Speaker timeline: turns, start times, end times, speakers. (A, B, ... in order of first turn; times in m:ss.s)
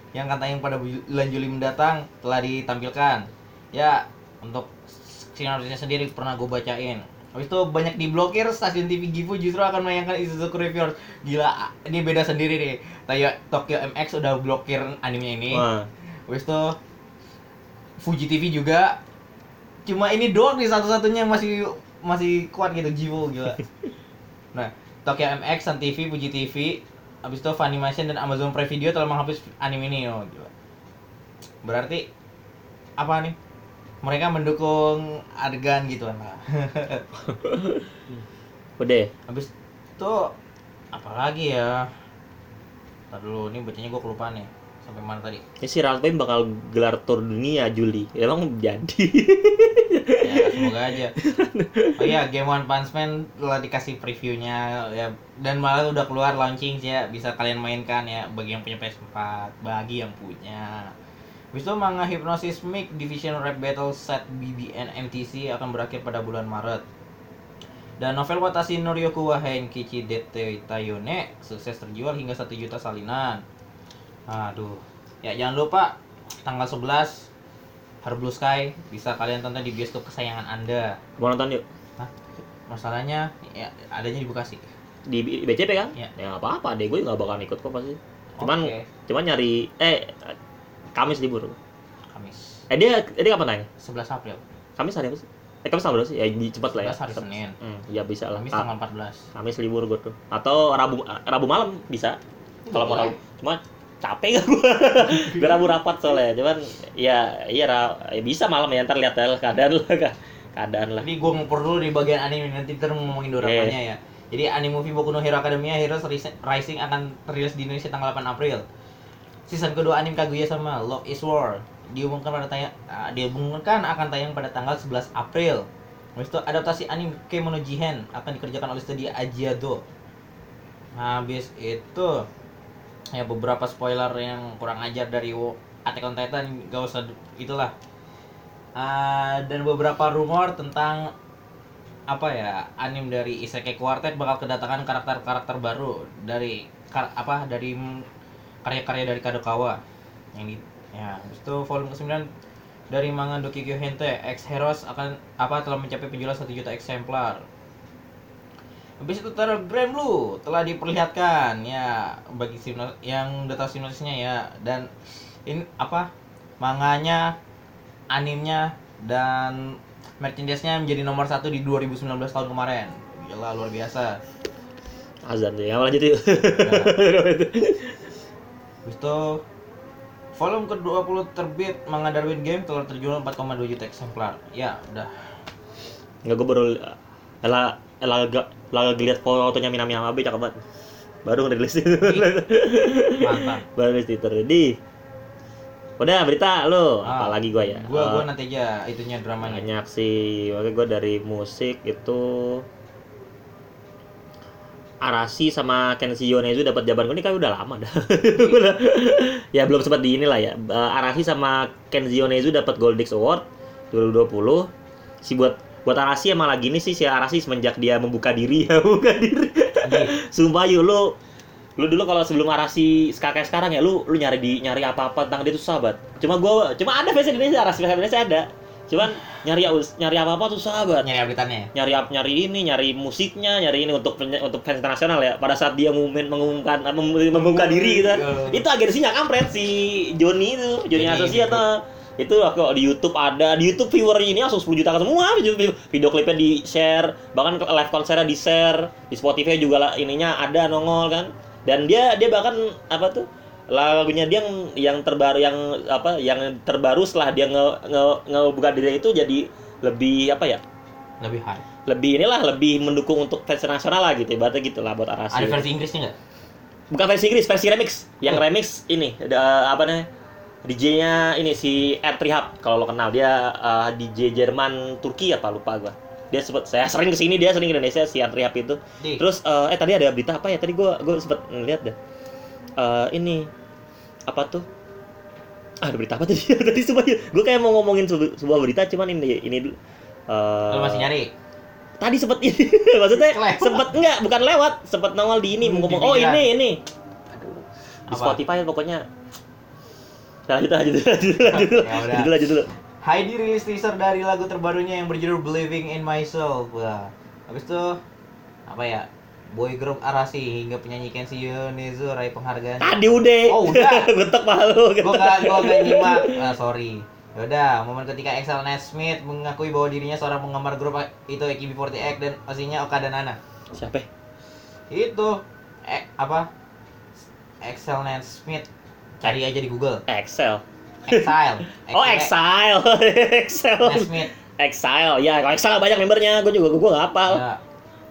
0:00.1-0:15.7 A
0:15.5-0:15.9 B
0:16.3-0:16.8 A
0:18.0-0:19.0 A
0:19.8-0:23.6 A
0:24.5-0:30.5 A
0:31.6-0:32.0 A
0:33.0-0:33.4 A
0:34.0-0:37.0 A
0:37.3-0:38.2 B
0:38.8-0:39.1 B
0:39.3-0:40.3 A
0:40.9-0:41.9 A
0:43.1-0:45.4 A
0:45.6-0:52.2 B
0:50.2-0:51.1 A
0:52.0-1:00.9 A
1:01.5-1:06.8 A
1:08.0-1:13.4 A
1:14.3-1:17.3 A
1:18.0-1:21.0 A
1:21.2-1:21.6 B
1:22.7-1:24.6 A
1:25.1-1:30.4 B
1:28.4-1:28.9 A
1:30.9-1:31.6 B
1:32.1-1:32.6 A
1:32.7-1:33.7 B
1:33.8-1:34.4 A
1:34.8-1:38.7 B
1:36.8-1:37.6 A
1:38.4-1:39.2 A
1:39.3-1:42.2 B
1:42.6-1:43.2 A
1:42.7-1:51.1 B
1:45.1-1:45.7 A
1:51.0-1:58.6 A
1:53.4-1:53.8 B
1:59.5-2:05.6 A
2:06.2-2:09.8 A
2:11.0-2:12.2 A
2:13.1-2:17.7 A
2:18.8-2:21.1 A
2:22.1-2:28.1 A
2:28.6-2:29.8 A
2:30.3-2:32.3 A
2:32.9-2:37.4 A
2:39.0-2:44.9 A
2:45.4-2:47.4 A
2:48.1-2:54.2 A
2:55.2-2:58.0 B
2:56.6-2:56.9 A
2:58.8-2:59.4 A
3:00.4-3:05.4 A
3:06.2-3:10.6 B
3:11.2-3:14.8 B
3:12.0-3:12.3 A
3:13.1-3:13.6 A
3:16.0-3:18.2 B
3:17.0-3:19.6 A
3:19.4-3:22.6 B
3:25.0-3:34.7 B
3:35.2-3:41.1 B
3:39.8-3:40.1 A
3:41.8-3:51.1 B
3:51.0-3:51.7 A
3:51.7-4:20.6 B
3:57.3-3:58.6 A
4:00.9-4:01.6 A
4:21.2-4:21.6 A
4:21.9-4:25.6 B
4:25.3-4:26.2 A
4:26.9-4:30.1 B
4:30.6-4:41.9 B
4:39.0-4:39.2 A
4:42.8-4:43.5 B
4:44.3-4:44.6 B
4:45.8-4:49.8 B
4:50.3-4:51.1 B
4:50.7-4:51.3 A
4:52.0-4:56.8 B
4:53.1-4:54.0 A
4:55.6-4:56.4 A
4:57.3-4:59.0 B
4:58.1-4:58.4 A
5:00.5-5:02.7 B
5:01.5-5:02.4 A
5:03.0-5:08.0 A
5:08.7-5:14.1 A
5:12.8-5:16.4 B
5:15.0-5:23.4 A
5:23.7-5:24.1 B
5:24.9-5:26.5 A
5:27.6-5:28.7 A
5:29.2-5:30.0 A
5:30.1-5:31.3 B
5:31.1-5:32.3 A
5:31.9-5:37.4 B
5:33.8-5:34.3 A
5:37.3-5:37.6 A